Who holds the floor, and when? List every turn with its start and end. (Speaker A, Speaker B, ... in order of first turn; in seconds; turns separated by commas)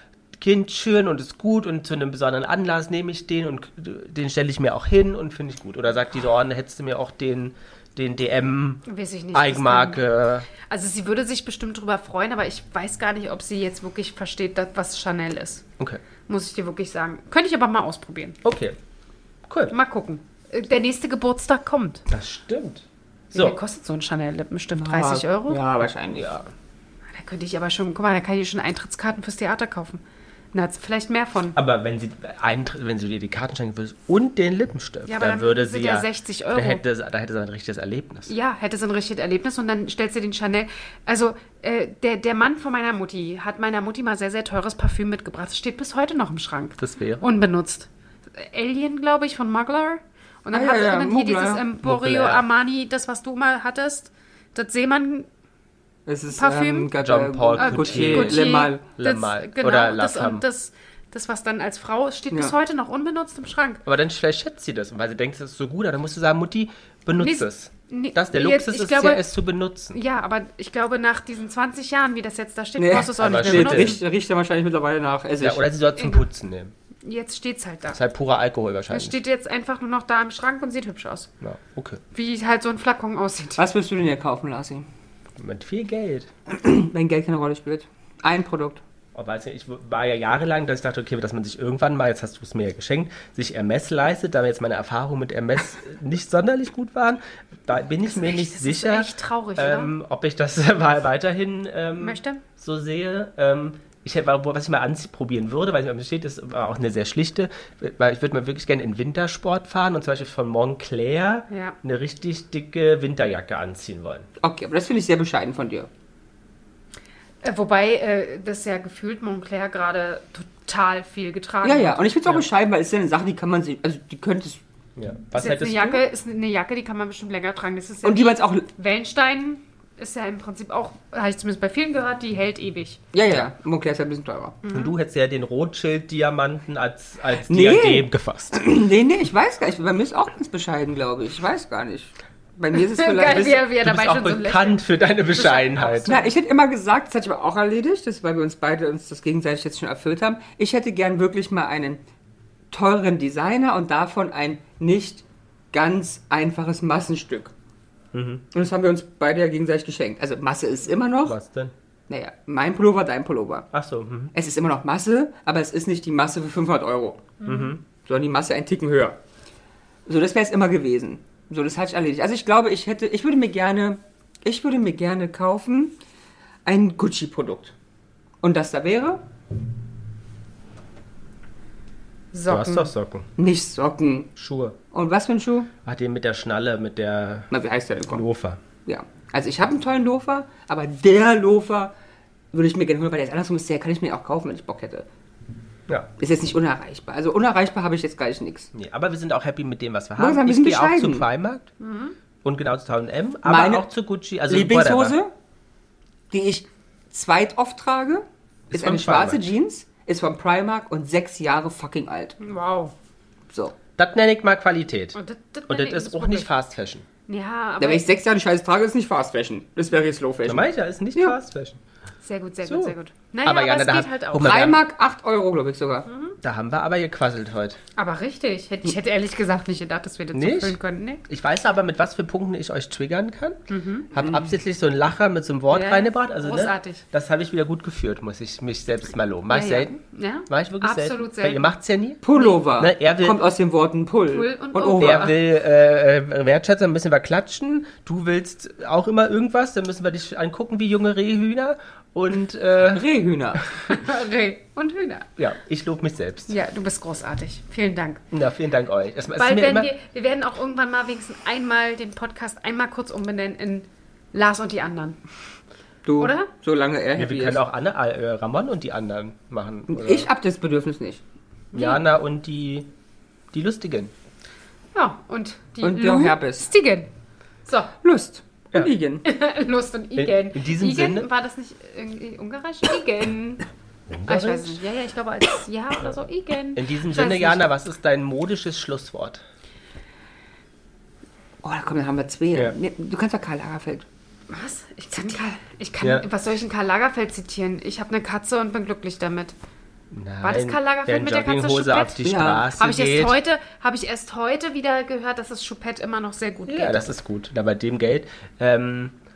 Speaker A: 0.4-8.8, Speaker B: 8.8-10.0, Speaker A: 9.3-10.5, Speaker B: 10.6-15.6, Speaker B: 16.3-18.4, Speaker A: 18.4-18.8, Speaker A: 19.5-19.7, Speaker B: 19.7-22.0, Speaker A: 22.1-23.6, Speaker B: 23.3-25.6, Speaker C: 24.7-26.4, Speaker B: 27.1-30.0, Speaker B: 30.5-31.6, Speaker A: 31.5-38.3, Speaker B: 35.0-36.8, Speaker B: 38.3-55.3, Speaker A: 46.8-47.3, Speaker C: 50.5-51.6, Speaker A: 51.8-52.4, Speaker C: 56.1-58.8, Speaker B: 56.3-56.9, Speaker A: 57.0-60.4, Speaker B: 57.6-63.8, Speaker A: 63.9-70.0, Speaker B: 67.2-69.3, Speaker B: 69.9-74.0, Speaker C: 72.8-75.6, Speaker A: 72.9-74.0, Speaker A: 75.4-76.7, Speaker B: 76.0-76.2, Speaker B: 77.0-78.0, Speaker A: 77.9-79.2, Speaker B: 78.9-81.3, Speaker A: 81.4-82.0, Speaker B: 82.1-83.6, Speaker C: 83.6-84.9, Speaker A: 85.4-86.3, Speaker C: 86.5-88.8, Speaker A: 89.1-114.3, Speaker B: 98.0-99.9, Speaker B: 102.0-102.4, Speaker B: 111.5-111.8, Speaker C: 114.4-115.9, Speaker B: 117.4-122.1, Speaker C: 121.6-124.6, Speaker A: 125.0-126.0, Speaker B: 125.4-133.0, Speaker C: 128.0-128.7, Speaker C: 133.1-134.6, Speaker B: 134.6-134.9, Speaker A: 134.7-138.6, Speaker C: 137.5-143.6, Speaker B: 142.7-146.3, Speaker A: 143.3-146.1, Speaker C: 146.0-152.0, Speaker C: 152.7-157.5, Speaker A: 158.1-158.4, Speaker C: 158.5-161.4, Speaker A: 161.2-161.7, Speaker C: 162.1-163.7, Speaker A: 163.7-164.3, Speaker C: 164.3-167.3, Speaker B: 167.4-167.7, Speaker A: 167.4-167.8, Speaker C: 168.0-169.2, Speaker C: 170.1-176.0, Speaker C: 176.6-177.7, Speaker C: 178.4-179.2, Speaker B: 182.3-182.9, Speaker A: 182.5-183.3, Speaker C: 183.4-184.3, Speaker A: 184.3-184.8, Speaker C: 184.9-185.7, Speaker A: 185.8-187.5, Speaker C: 187.5-188.2, Speaker A: 188.1-188.6, Speaker C: 188.8-191.9, Speaker C: 192.5-195.1, Speaker C: 196.2-198.7, Speaker A: 198.7-201.7, Speaker C: 200.2-201.2, Speaker B: 201.8-202.1, Speaker A: 202.4-205.2, Speaker C: 203.4-203.9, Speaker C: 204.5-205.3, Speaker C: 206.3-212.4, Speaker A: 208.7-209.4, Speaker B: 212.4-212.9, Speaker A: 214.0-217.1, Speaker B: 215.1-216.5, Speaker B: 217.3-218.1, Speaker C: 217.8-221.3, Speaker A: 220.4-221.8, Speaker B: 222.2-224.7, Speaker A: 222.6-224.8, Speaker C: 224.4-226.1, Speaker B: 226.1-226.4, Speaker A: 226.4-227.8, Speaker B: 227.9-231.2, Speaker A: 230.3-239.9, Speaker B: 233.7-234.1, Speaker B: 235.7-237.0, Speaker B: 239.5-241.6, Speaker A: 240.5-243.4, Speaker C: 242.2-245.3, Speaker B: 244.3-245.4, Speaker A: 245.0-253.1, Speaker C: 252.9-253.6, Speaker B: 253.8-255.3, Speaker A: 255.4-256.5, Speaker B: 256.5-258.2, Speaker A: 258.3-259.9, Speaker B: 259.4-265.2, Speaker C: 266.0-267.6, Speaker B: 266.2-266.5, Speaker A: 267.1-270.3, Speaker C: 269.9-271.2, Speaker B: 271.7-272.0, Speaker A: 271.7-272.9, Speaker A: 273.5-274.1, Speaker B: 274.9-277.1, Speaker C: 275.8-276.7, Speaker B: 277.6-277.9, Speaker C: 278.0-279.2, Speaker B: 279.2-283.6, Speaker A: 280.1-281.3, Speaker A: 284.2-284.8, Speaker B: 284.2-287.6, Speaker A: 286.7-289.4, Speaker C: 291.6-294.1, Speaker B: 294.5-299.5, Speaker A: 296.0-296.2, Speaker A: 300.1-303.4, Speaker B: 300.4-307.0, Speaker C: 302.2-302.6, Speaker A: 306.7-309.1